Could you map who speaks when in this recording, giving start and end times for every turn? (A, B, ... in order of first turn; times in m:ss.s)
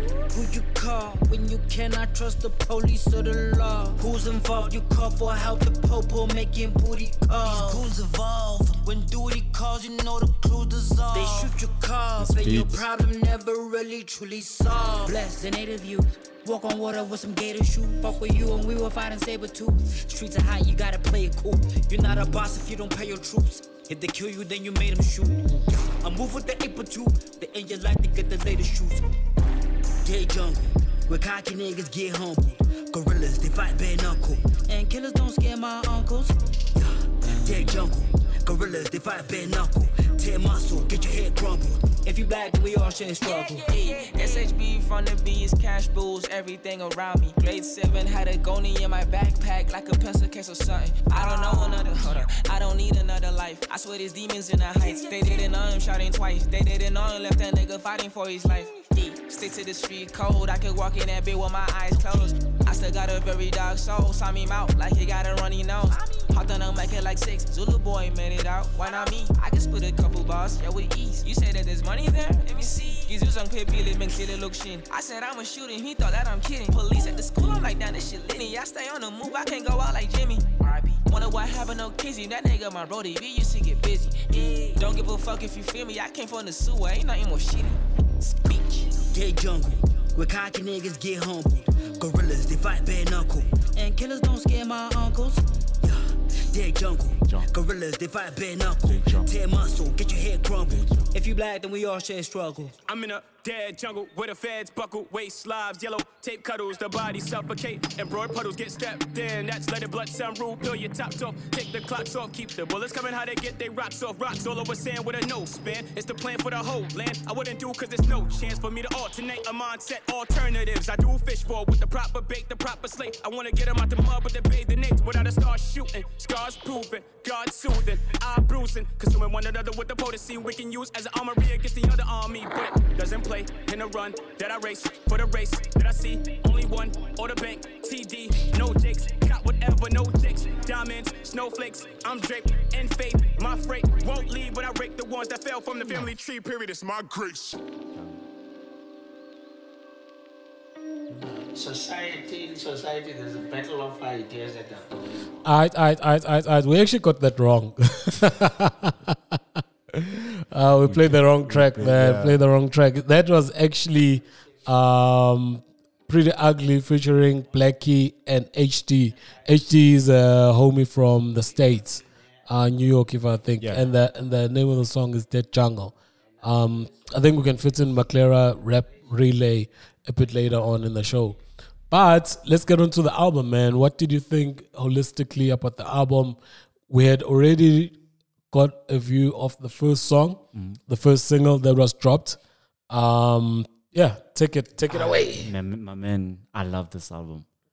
0:00.3-0:29.0 A
0:12.2-0:12.8 B
0:30.0-0:43.7 A
0:43.5-1:28.9 C
1:28.9-1:42.8 A
1:38.8-1:39.3 B
1:40.7-1:41.1 B
1:42.9-2:27.6 D
2:31.5-2:35.4 E
2:35.4-3:08.0 F
2:40.8-2:42.4 B
2:53.6-2:53.9 B
3:08.5-3:12.4 F
3:12.9-3:15.5 F
3:14.9-3:17.5 B